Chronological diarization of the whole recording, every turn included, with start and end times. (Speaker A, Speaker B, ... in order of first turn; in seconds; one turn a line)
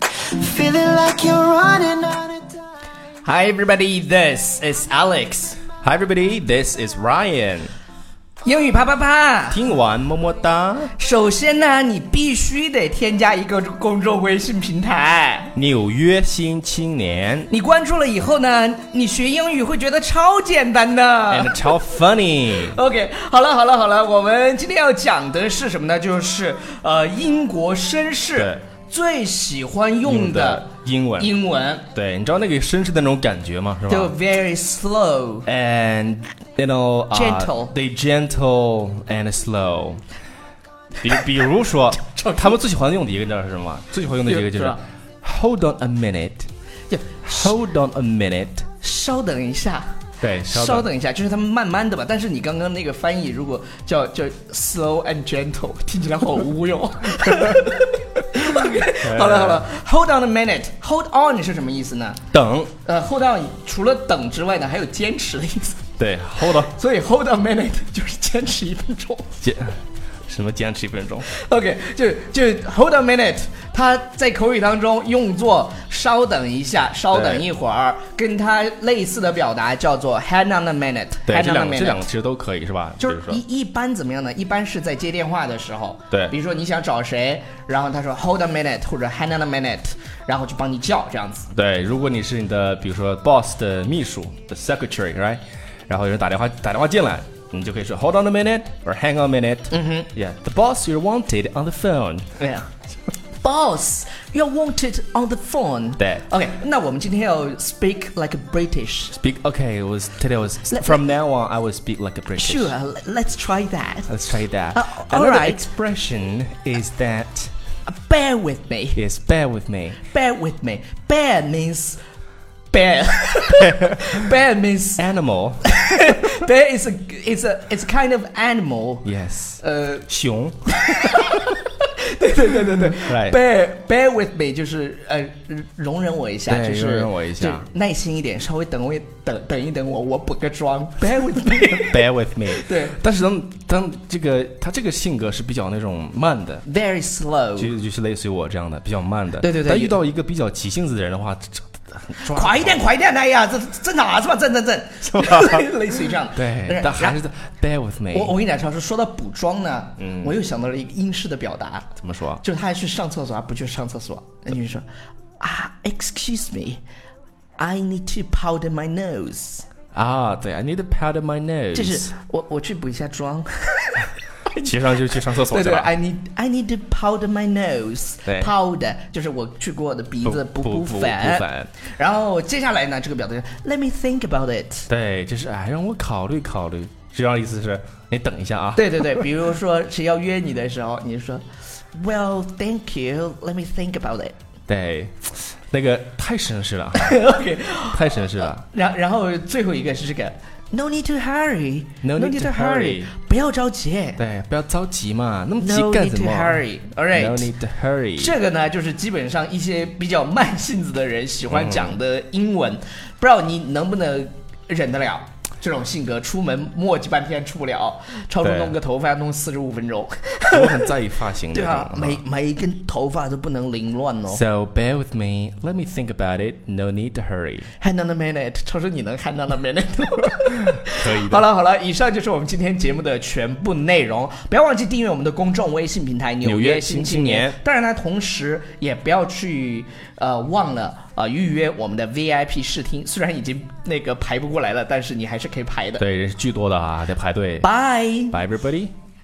Speaker A: 0.2-2.6
Speaker B: 3.2-5.6
Speaker C: 5.8-7.7
Speaker B: 8.4-9.6
Speaker C: 9.5-10.9
Speaker B: 11.0-15.5
Speaker C: 15.5-17.5
Speaker B: 17.5-21.7
Speaker C: 21.3-22.8
Speaker B: 22.6-31.8
Speaker C: 30.0-31.3
Speaker C: 31.9-34.1
Speaker B: 33.9-35.5
Speaker C: 35.5-40.0
Speaker B: 37.1-37.7
Speaker C: 41.0-46.5
Speaker B: 42.1-42.4
Speaker B: 44.2-44.8
Speaker B: 46.9-47.5
Speaker C: 47.2-48.7
Speaker B: 48.8-49.9
Speaker C: 50.2-50.9
Speaker B: 50.4-62.2
Speaker C: 59.0-59.6
Speaker C: 62.3-62.7
Speaker B: 62.8-69.3
Speaker C: 66.0-66.7
Speaker C: 69.4-71.3
Speaker B: 71.3-82.0
Speaker C: 77.1-77.5
Speaker C: 81.3-83.4
Speaker B: 83.0-91.5
Speaker C: 91.5-102.2
Speaker B: 99.7-100.1
Speaker B: 102.4-102.7
Speaker B: 103.4-109.2
Speaker C: 106.0-106.2
Speaker C: 109.2-112.7
Speaker B: 110.7-111.0
Speaker B: 112.3-114.2
Speaker C: 114.1-117.5
Speaker B: 114.7-115.7
Speaker B: 117.9-119.0
Speaker C: 118.9-120.0
Speaker B: 120.0-122.0
Speaker B: 122.7-125.0
Speaker C: 123.7-124.0
Speaker C: 125.0-125.6
Speaker B: 125.6-129.1
Speaker C: 129.0-130.6
Speaker B: 129.6-130.1
Speaker B: 130.7-142.9
Speaker C: 133.0-133.4
Speaker C: 136.5-137.7
Speaker C: 141.8-146.6
Speaker B: 146.6-147.7
Speaker C: 147.6-152.8
Speaker B: 149.4-150.0
Speaker B: 152.3-157.2
Speaker C: 155.1-155.7
Speaker C: 156.3-158.3
Speaker B: 158.1-164.8
Speaker C: 160.0-160.3
Speaker C: 162.0-162.4
Speaker B: 165.4-166.8
Speaker B: 167.6-169.7
Speaker C: 169.9-172.1
Speaker B: 171.7-174.7
Speaker C: 174.5-175.9
Speaker B: 175.4-184.9
Speaker C: 178.2-178.5
Speaker C: 180.2-181.7
Speaker C: 184.9-189.2
Speaker B: 188.8-194.3
Speaker C: 194.7-197.2
Speaker B: 196.9-204.2
Speaker C: 197.9-198.6
Speaker C: 202.0-203.1
Speaker C: 204.2-208.3
Speaker B: 205.6-207.5
Speaker B: 208.2-220.9
Speaker C: 211.5-212.0
Speaker C: 218.4-218.8
Speaker C: 220.5-222.2
Speaker B: 221.5-224.4
Speaker C: 224.3-227.7
Speaker B: 227.8-246.0
Speaker C: 230.9-231.4
Speaker C: 236.4-237.6
Speaker C: 246.0-247.7
Speaker B: 247.6-248.4
Speaker C: 248.3-248.9